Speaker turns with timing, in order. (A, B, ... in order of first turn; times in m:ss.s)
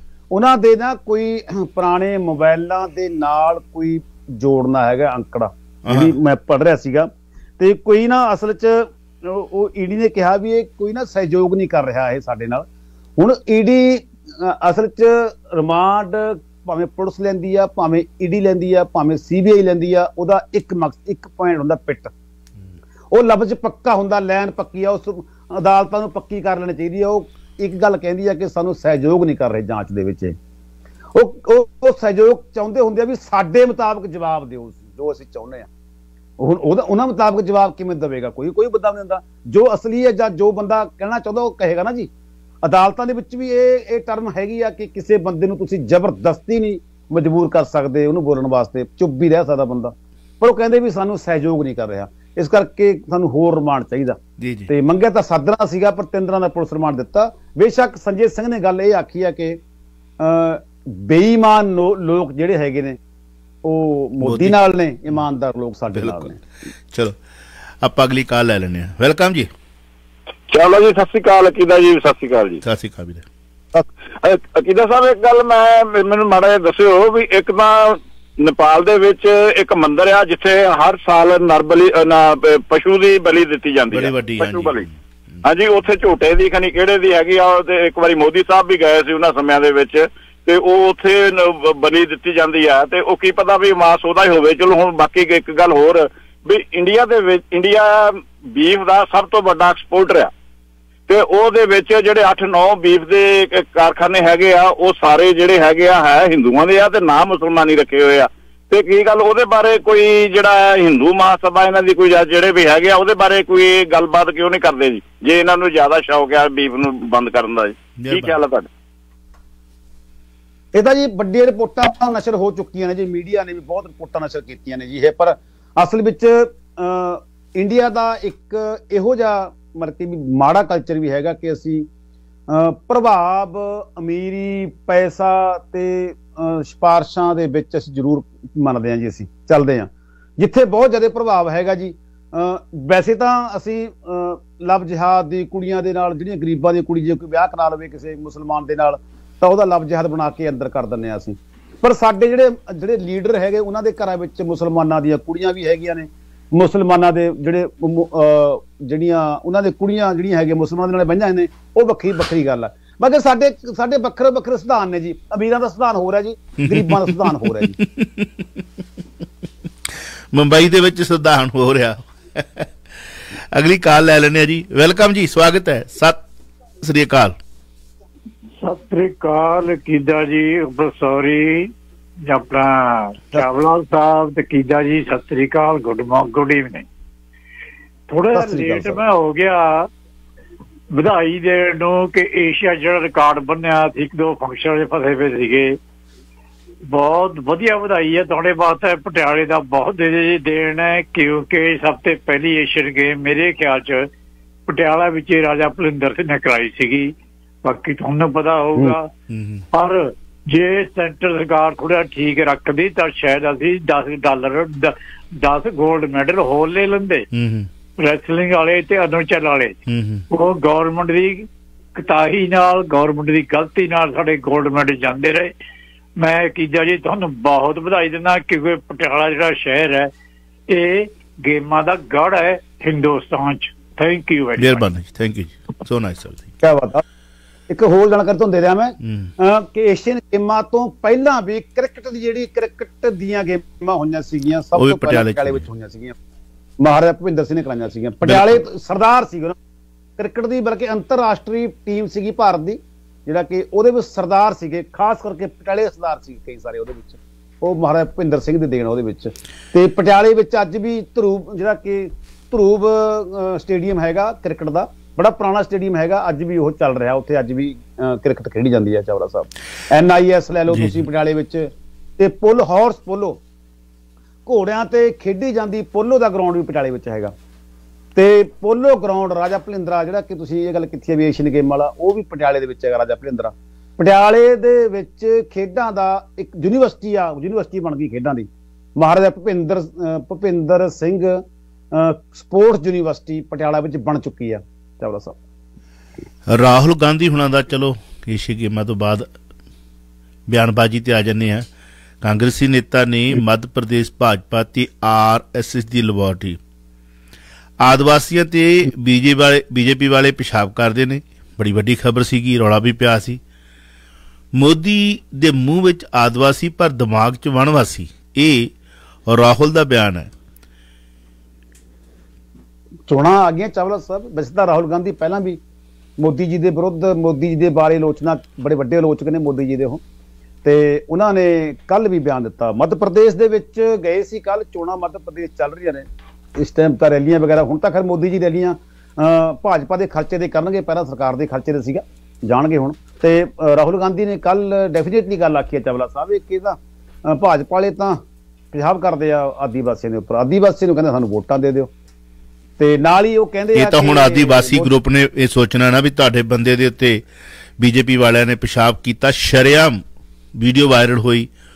0:00.3-0:12.6 A
0:05.8-0:06.1 B
0:13.2-0:22.1 A
0:23.1-0:30.4 A
0:31.1-0:35.7 A
0:36.4-0:42.1 A
0:42.6-0:59.6 A
0:54.4-0:54.7 B
1:00.2-1:03.0 A
1:03.6-1:06.4 A
1:04.2-1:04.6 B
1:05.9-1:06.3 B
1:07.8-1:09.5 B
1:10.5-1:12.6 C
1:12.6-1:13.3 B
1:14.2-1:24.8 C
1:23.9-1:25.0 B
1:25.4-1:40.3 C
1:41.1-1:58.7 C
1:58.0-1:58.4 B
2:00.7-2:11.9 A
2:12.5-2:47.8 A
2:46.6-2:48.6 B
2:50.3-2:56.2 B
2:56.8-2:57.4 B
2:58.6-3:01.7 D
3:02.3-3:06.8 D
3:08.1-3:09.9 D
3:08.3-3:09.0 A
3:10.9-3:15.8 D
3:16.9-3:24.1 D
3:24.7-3:27.1 D
3:27.6-3:29.1 D
3:29.3-3:29.6 B
3:29.7-3:37.3 D
3:37.3-3:37.7 B
3:38.0-3:39.8 D
3:39.9-3:40.2 B
3:40.3-3:45.5 D
3:46.2-3:50.1 D
3:50.7-3:54.8 D
3:54.6-3:56.5 B
3:56.6-3:57.0 A
3:57.7-4:06.2 A
3:59.0-3:59.3 B
4:04.8-4:05.7 B
4:06.8-4:09.6 A
4:08.2-4:08.6 B
4:10.2-4:33.4 A
4:30.7-4:31.0 B
4:34.5-4:37.3 A
4:38.2-4:55.4 A
4:56.5-4:59.3 B
5:00.5-5:01.7 B
5:02.2-5:06.6 B
5:07.8-5:13.4 B
5:14.5-5:18.7 B
5:19.3-5:20.3 B
5:23.1-5:25.6 A
5:26.2-5:30.0 A
5:30.6-5:48.2 A
5:48.7-5:51.9 A
5:52.8-5:54.9 A
5:53.8-5:57.2 B
5:57.8-6:00.0 B
6:00.6-6:01.5 B